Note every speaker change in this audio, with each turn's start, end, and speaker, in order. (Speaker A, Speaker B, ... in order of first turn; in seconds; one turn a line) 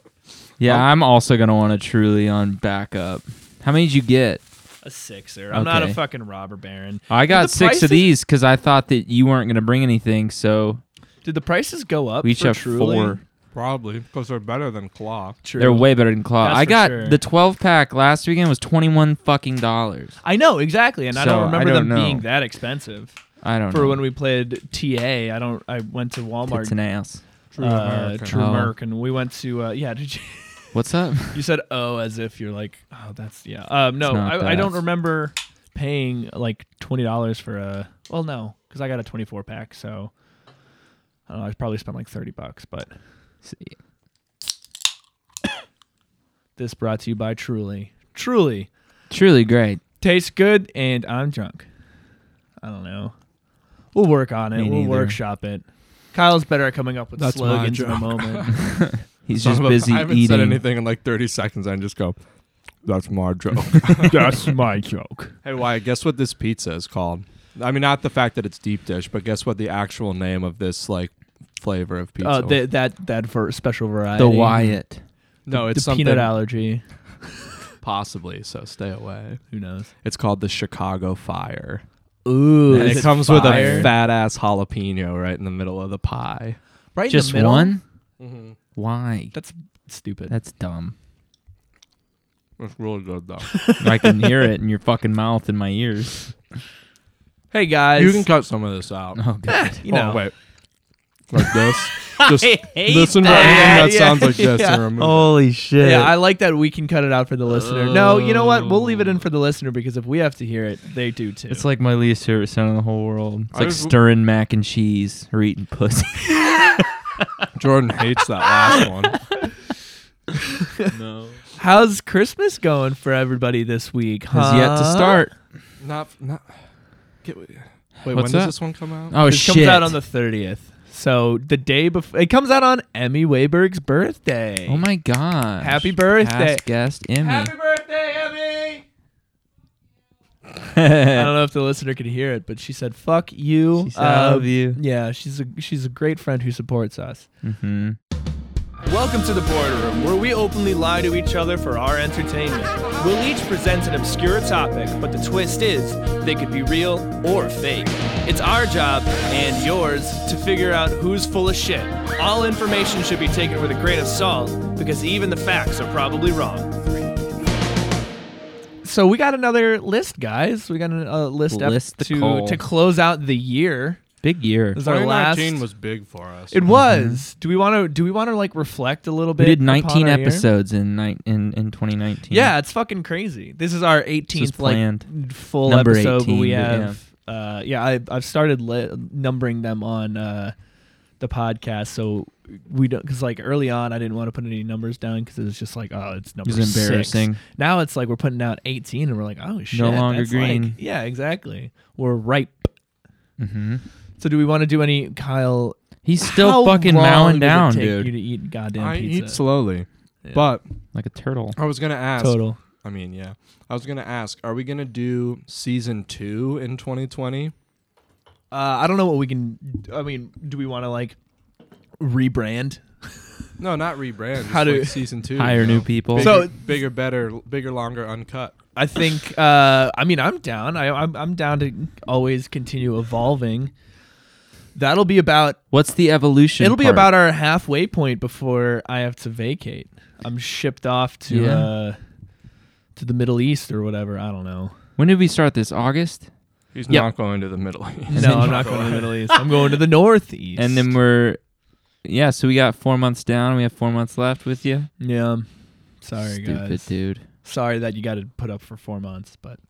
Speaker A: 0.6-4.4
Speaker B: 4.8-8.1
Speaker A: 5.5-6.0
Speaker A: 7.1-10.8
Speaker B: 11.2-13.2
Speaker A: 12.2-13.2
Speaker C: 13.5-15.4
Speaker B: 15.4-17.2
Speaker A: 15.6-20.2
Speaker B: 20.2-23.1
Speaker A: 21.1-22.2
Speaker A: 23.4-24.0
Speaker B: 23.7-26.7
Speaker A: 26.5-27.2
Speaker C: 27.5-28.7
Speaker B: 27.6-30.7
Speaker A: 30.7-31.4
Speaker B: 31.3-40.1
Speaker A: 34.0-34.8
Speaker B: 41.3-42.9
Speaker A: 43.5-43.7
Speaker B: 46.6-48.7
Speaker A: 49.1-49.8
Speaker B: 50.0-51.6
Speaker B: 52.6-53.1
Speaker B: 53.9-58.5
Speaker A: 54.5-55.2
Speaker C: 57.2-58.6
Speaker A: 58.6-60.6
Speaker C: 59.4-62.2
Speaker C: 62.8-64.3
Speaker A: 63.8-64.1
Speaker B: 64.1-65.4
Speaker C: 65.4-72.6
Speaker B: 72.2-74.7
Speaker A: 74.2-75.0
Speaker C: 75.5-76.3
Speaker B: 75.5-76.8
Speaker C: 77.8-79.4
Speaker B: 79.5-79.9
Speaker C: 80.0-81.8
Speaker B: 82.2-83.9
Speaker A: 82.7-83.9
Speaker C: 82.7-86.6
Speaker B: 86.9-87.8
Speaker A: 87.1-87.8
Speaker C: 88.2-88.5
Speaker A: 88.8-89.3
Speaker B: 89.3-90.3
Speaker A: 90.3-90.9
Speaker C: 92.6-93.5
Speaker B: 93.5-94.3
Speaker A: 93.8-96.4
Speaker B: 97.5-98.3
Speaker C: 98.0-99.2
Speaker A: 99.1-99.7
Speaker B: 99.5-100.2
Speaker C: 99.8-100.3
Speaker C: 101.3-105.3
Speaker A: 102.7-103.8
Speaker B: 102.7-104.9
Speaker A: 105.0-106.1
Speaker B: 105.8-111.6
Speaker A: 107.7-108.8
Speaker A: 111.5-116.9
Speaker C: 113.5-114.0
Speaker C: 117.5-119.2
Speaker A: 120.9-121.4
Speaker B: 121.5-125.2
Speaker A: 124.3-125.3
Speaker C: 125.8-126.6
Speaker C: 127.2-129.1
Speaker A: 128.1-128.5
Speaker A: 129.1-130.0
Speaker B: 129.2-134.8
Speaker A: 134.7-137.5
Speaker B: 135.6-136.6
Speaker B: 137.2-138.8
Speaker A: 140.7-141.3
Speaker B: 141.1-147.3
Speaker A: 143.8-144.8
Speaker A: 147.4-148.0
Speaker B: 148.8-166.7
Speaker B: 168.8-174.0
Speaker A: 171.5-172.6
Speaker A: 174.2-174.8
Speaker B: 174.7-175.6
Speaker C: 174.8-176.6
Speaker B: 176.5-180.5
Speaker A: 176.7-177.2
Speaker A: 179.4-182.5
Speaker B: 182.3-190.5
Speaker A: 184.3-185.1
Speaker A: 185.6-187.0
Speaker B: 191.2-202.7
Speaker A: 196.4-197.4
Speaker A: 199.7-200.8
Speaker A: 203.4-203.8
Speaker B: 204.2-209.4
Speaker A: 206.0-208.1
Speaker C: 208.8-210.7
Speaker A: 210.9-211.6
Speaker C: 211.6-217.5
Speaker B: 212.2-212.6
Speaker B: 218.5-221.2
Speaker B: 222.0-223.2
Speaker C: 223.6-228.6
Speaker B: 224.4-225.0
Speaker A: 225.3-226.4
Speaker B: 226.2-226.5
Speaker B: 228.8-233.7
Speaker B: 234.7-235.6
Speaker A: 235.7-237.1
Speaker B: 236.6-242.0
Speaker A: 241.3-241.7
Speaker B: 242.9-244.7
Speaker A: 245.0-246.3
Speaker C: 246.7-249.2
Speaker B: 248.1-250.9
Speaker A: 248.1-249.0
Speaker A: 250.6-251.4
Speaker A: 252.0-254.9
Speaker B: 255.0-255.5
Speaker B: 256.0-259.6
Speaker A: 256.2-257.2